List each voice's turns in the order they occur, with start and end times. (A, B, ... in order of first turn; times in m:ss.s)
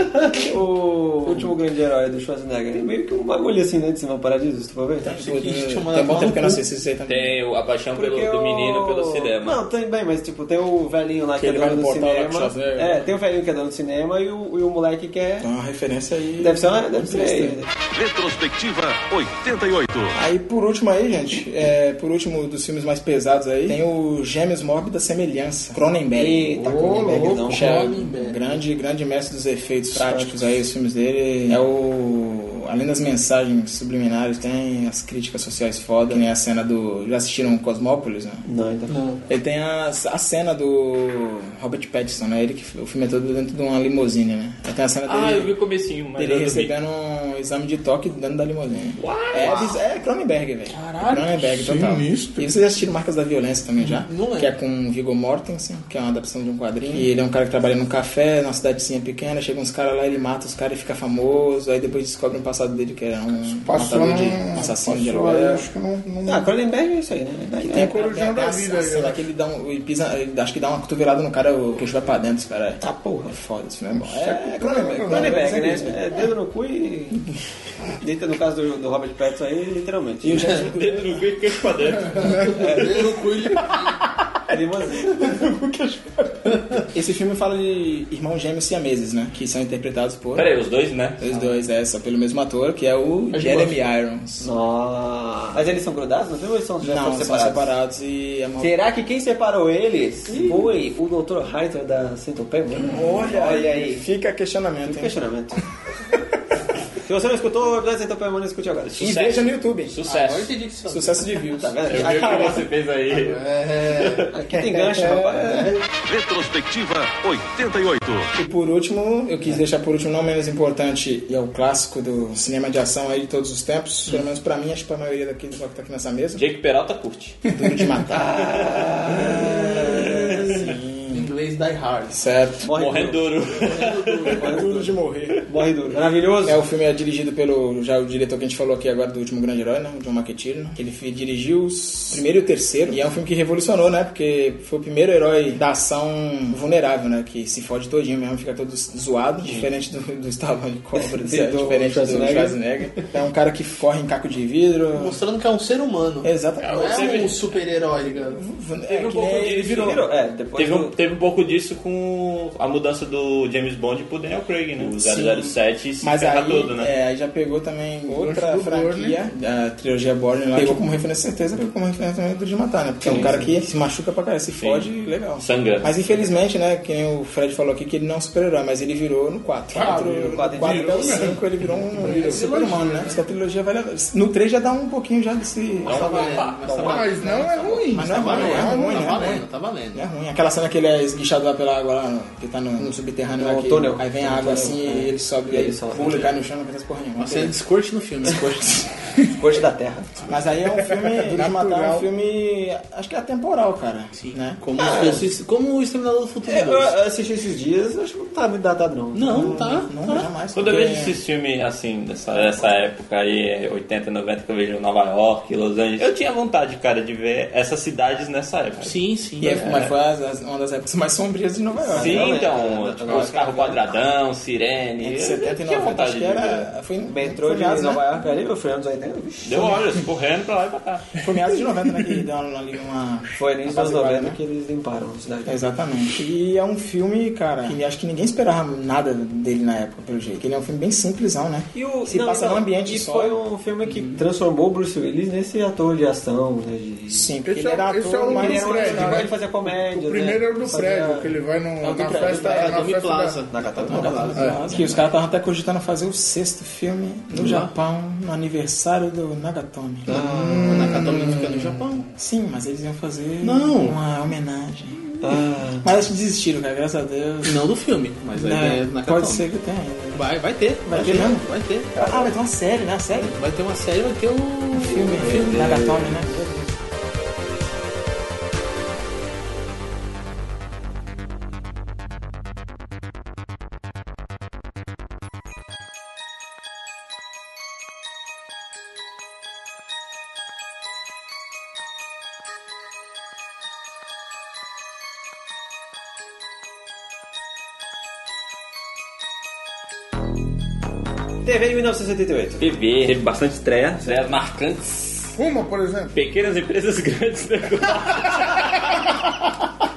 0:00.3-0:05.1 A
0:05.0-0:07.4 B
0:05.0-0:06.6 C
0:07.1-0:09.6 D
0:07.9-0:15.5 A
0:11.4-0:13.1 B
0:15.4-0:17.6 B
0:16.4-0:17.7 A
0:17.9-0:20.2 E
0:20.1-0:38.4 B
0:26.1-0:27.9 A
0:26.9-0:28.6 C
0:29.9-0:30.4 A
0:38.4-0:39.0 A
0:39.3-0:45.5 B
0:45.0-0:46.7 D
0:46.2-1:05.6 B
0:49.0-0:49.6 D
0:50.7-0:51.8 C
0:51.5-0:52.5 F
0:53.8-0:54.5 C
1:03.6-1:06.5 F
1:06.2-1:08.0 A
1:07.6-1:16.3 B
1:07.7-1:09.2 F
1:12.8-1:13.4 A
1:14.0-1:17.2 A
1:14.6-1:15.8 F
1:18.0-1:20.6 A
1:20.2-1:21.3 B
1:20.3-1:22.6 D
1:22.2-1:30.5 B
1:22.3-1:23.9 C
1:22.6-1:22.9 A
1:24.5-1:25.4 A
1:30.3-1:31.2 D
1:31.2-1:34.5 B
1:33.3-1:33.7 C
1:34.4-1:37.7 A
1:36.8-1:38.7 B
1:38.6-1:44.0 A
1:40.3-1:40.7 C
1:42.9-1:45.2 B
1:44.8-1:45.6 A
1:47.0-1:49.0 A
1:48.9-1:50.5 D
1:49.0-1:50.0 B
1:50.0-1:51.4 C
1:50.9-1:52.7 B
1:51.5-1:52.6 A
1:51.9-1:54.2 D
1:53.1-1:54.3 C
1:54.3-1:55.8 A
1:54.5-1:55.7 B
1:56.0-1:58.3 E
1:58.4-2:06.4 B
2:06.4-2:07.4 D
2:07.5-2:11.3 B
2:08.1-2:10.7 A
2:11.1-2:12.2 C
2:12.1-2:12.7 B
2:12.6-2:13.3 A
2:12.7-2:14.5 D
2:13.5-2:14.5 C
2:14.3-2:16.6 A
2:14.4-2:15.4 B
2:16.4-2:35.2 B
2:31.0-2:32.6 A
2:34.9-2:38.4 C
2:36.2-2:37.3 B
2:36.6-2:37.5 D
2:38.1-2:40.0 B
2:38.9-2:40.0 D
2:39.4-2:40.9 A
2:40.6-2:46.9 D
2:44.8-3:06.5 B
2:48.1-2:49.2 F
2:50.5-2:50.8 A
2:53.0-2:53.5 A
2:54.6-2:56.0 D
2:59.7-3:01.4 A
2:59.7-3:01.4 F
3:02.0-3:03.2 C
3:02.0-3:02.8 F
3:05.8-3:10.0 C
3:05.9-3:06.6 D
3:05.9-3:07.1 A
3:06.8-3:09.3 F
3:07.2-3:17.5 B
3:13.4-3:16.3 A
3:17.2-3:18.9 C
3:19.4-3:20.3 A
3:20.3-3:24.6 B
3:20.9-3:22.1 F
3:24.1-3:26.9 C
3:24.8-3:25.3 A
3:26.4-3:29.8 A
3:29.1-3:30.3 C
3:29.3-3:31.2 B
3:30.5-3:39.0 D
3:38.8-3:39.7 C
3:39.4-3:42.4 B
3:39.5-3:39.9 D
3:41.8-3:43.8 A
3:41.9-3:46.7 D
3:45.0-3:48.0 B
3:47.0-3:49.8 A
3:49.4-3:51.1 D
3:51.2-3:54.4 B
3:53.3-3:55.6 A
3:55.4-4:03.4 B
4:01.7-4:07.4 A
4:07.1-4:09.3 B
4:07.4-4:13.5 F
4:08.2-4:11.4 A
4:11.8-4:12.5 B
4:12.0-4:14.6 C
4:12.1-4:12.7 A
4:13.5-4:14.8 A
4:13.9-4:27.7 B
4:17.3-4:17.7 C
4:20.1-4:21.0 A
4:20.1-4:22.1 C
4:23.4-4:24.0 C
4:25.2-4:25.9 A
4:27.4-4:29.5 C
4:28.3-4:30.3 B
4:30.1-4:31.9 C
4:30.8-4:31.4 B
4:31.0-4:31.3 A
4:31.9-4:32.3 A
4:31.9-4:33.3 B
4:33.1-4:35.7 C
4:34.7-4:36.4 B
4:35.1-4:36.7 A
5:01.4-5:02.6 A
5:02.6-5:05.4 D
5:05.4-5:06.2 F
5:06.1-5:09.1 D